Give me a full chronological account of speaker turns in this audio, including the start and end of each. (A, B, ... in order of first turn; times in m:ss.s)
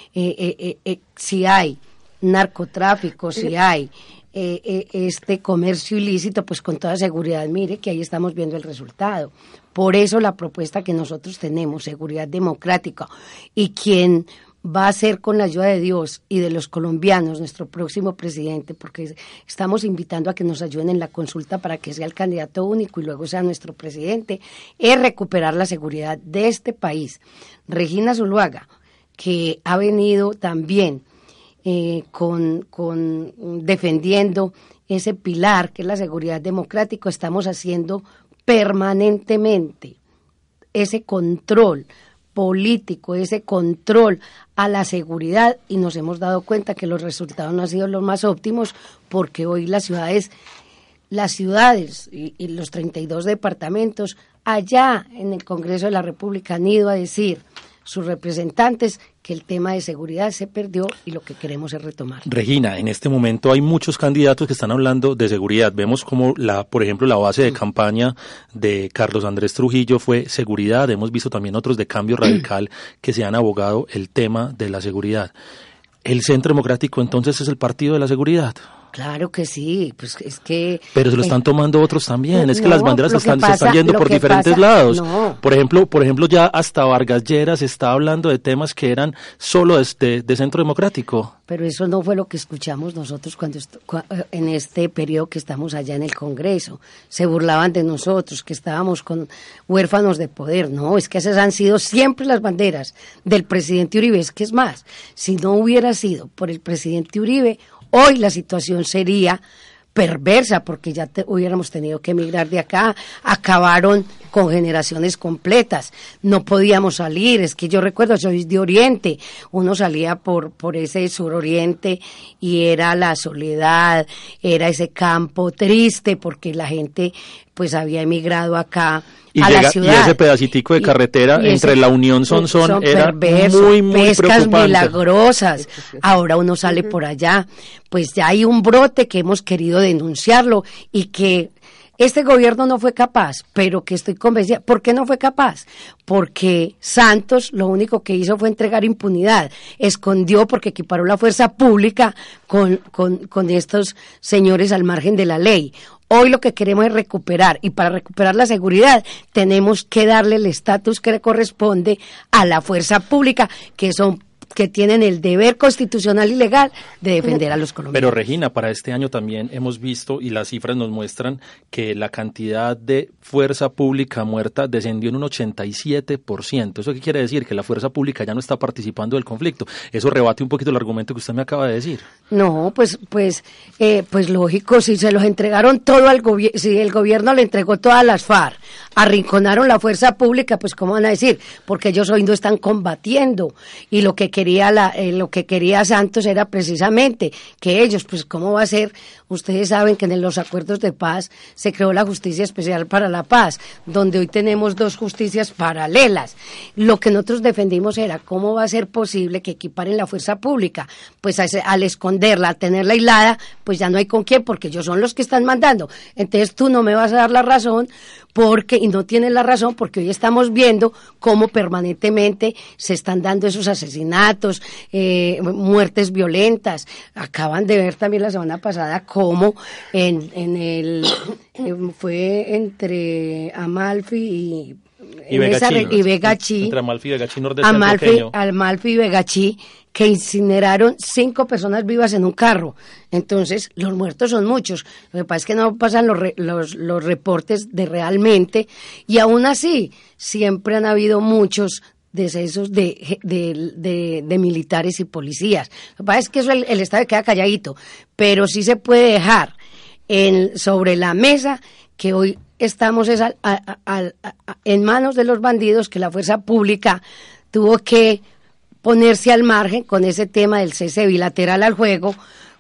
0:00.2-0:28.7 A
0:29.2-0:31.0 A
0:31.6-0:40.0 A
0:40.8-0:50.3 A
0:51.1-1:02.3 A
1:02.3-1:15.3 B
1:16.0-1:18.6 B
1:18.9-1:21.4 A
1:21.0-1:31.3 B
1:22.3-1:25.4 A
1:31.5-1:49.4 A
1:50.0-2:10.2 A
2:09.4-2:15.0 B
2:10.8-2:48.2 A
2:47.9-3:02.1 B
3:02.3-3:56.8 A
3:55.3-3:58.3 B
3:57.6-4:19.5 A
4:20.1-4:28.2 A
4:28.8-4:32.2 A